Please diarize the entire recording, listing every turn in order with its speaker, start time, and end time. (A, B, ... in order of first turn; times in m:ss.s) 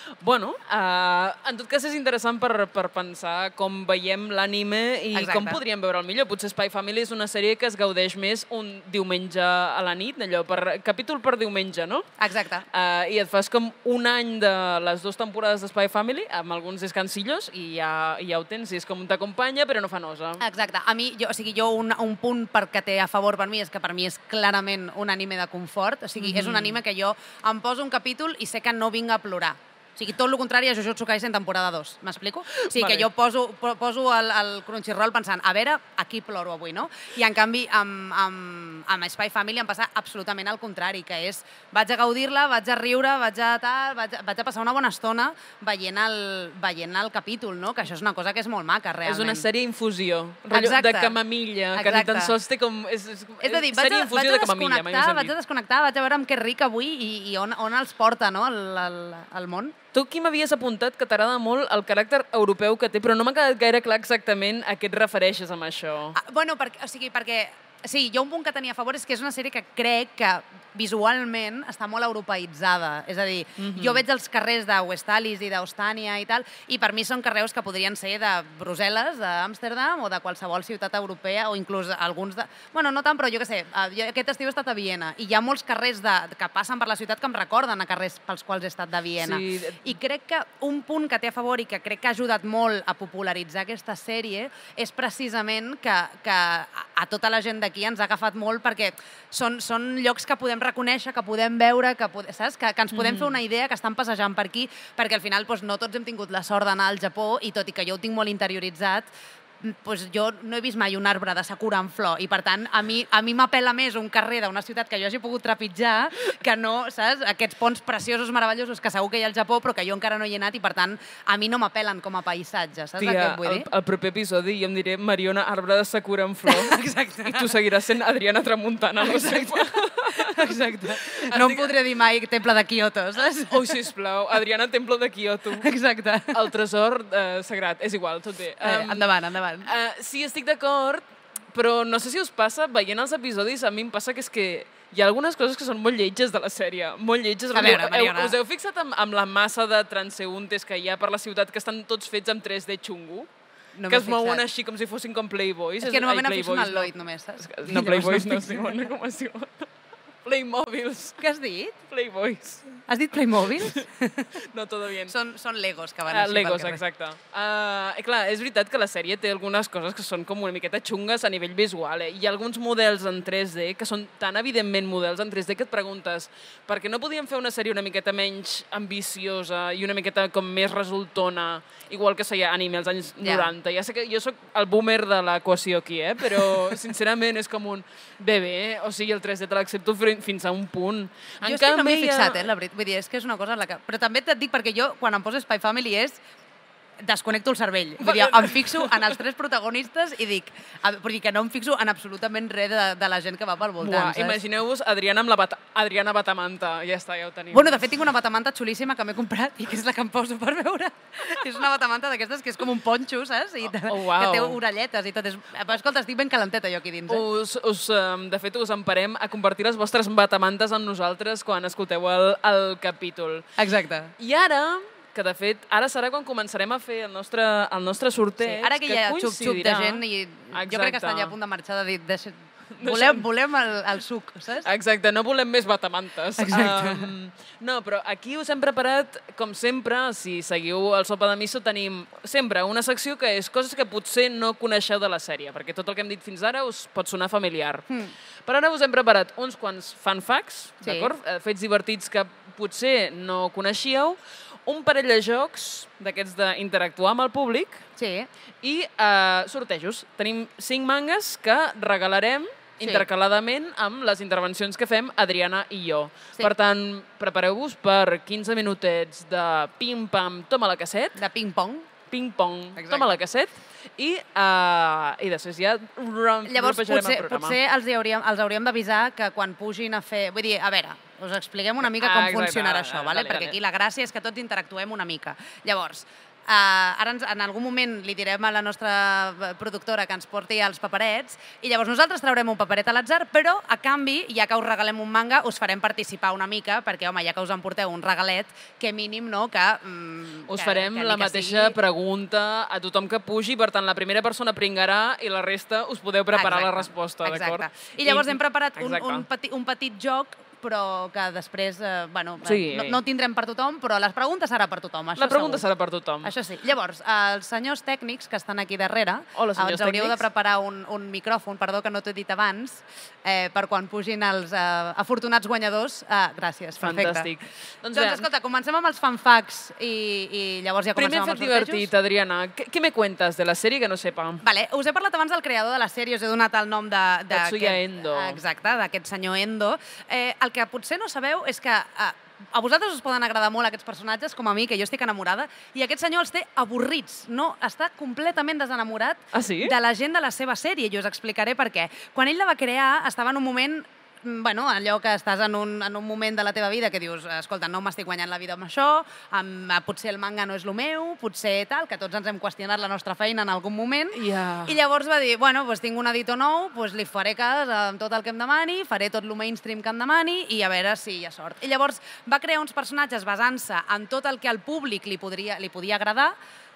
0:00.2-0:12.1 A
0:05.1-0:05.6 B
0:12.2-0:12.7 B
0:12.7-0:20.4 A
0:20.4-0:49.5 B
0:26.2-0:26.8 A
0:32.6-0:33.1 A
0:49.0-0:55.3 A
0:50.5-0:51.2 B
0:51.7-0:52.3 B
0:53.4-0:59.8 B
0:59.9-1:06.2 A
1:06.2-1:49.1 B
1:13.6-1:14.0 A
1:29.2-1:29.8 A
1:42.9-1:43.3 A
1:49.6-2:03.7 B
2:03.0-2:10.5 A
2:06.5-2:07.6 B
2:09.0-2:13.8 B
2:11.0-2:11.7 A
2:13.5-2:15.7 A
2:15.6-2:16.4 B
2:16.3-2:19.1 A
2:18.6-2:19.7 B
2:19.6-2:33.3 A
2:27.5-2:28.4 B
2:33.8-2:34.4 B
2:33.9-2:39.7 A
2:35.8-2:38.7 B
2:40.2-2:41.2 A
2:41.2-2:41.8 B
2:41.9-2:42.7 A
2:42.9-2:44.3 B
2:44.4-2:45.1 A
2:45.1-2:46.8 B
2:46.1-3:12.5 A
3:03.2-3:03.5 B
3:11.4-3:16.2 B
3:17.0-3:24.4 B
3:18.0-3:19.1 A
3:23.8-3:27.8 A
3:27.5-3:37.2 B
3:33.8-3:34.6 A
3:37.1-3:43.5 A
3:43.6-3:44.1 B
3:44.2-3:51.3 A
3:48.4-3:54.7 B
3:52.7-3:53.2 A
3:54.6-4:07.8 A
3:56.4-3:57.1 B
4:08.5-4:17.8 A
4:10.8-4:11.1 B
4:18.0-4:18.3 B
4:18.6-4:31.2 A
4:31.2-4:31.9 B
4:32.1-4:37.6 A
4:32.8-4:33.2 B
4:36.4-5:01.8 B
4:41.8-4:43.6 A
5:00.5-5:09.3 A
5:06.3-5:15.7 B
5:12.4-5:13.0 A
5:15.2-5:16.3 A
5:16.2-5:27.3 B
5:19.4-5:20.2 A
5:26.8-5:28.3 A
5:27.9-5:31.9 B
5:31.0-5:34.4 A
5:34.4-6:16.4 B
5:37.3-5:38.4 A
5:49.3-5:49.8 A
6:04.1-6:04.8 A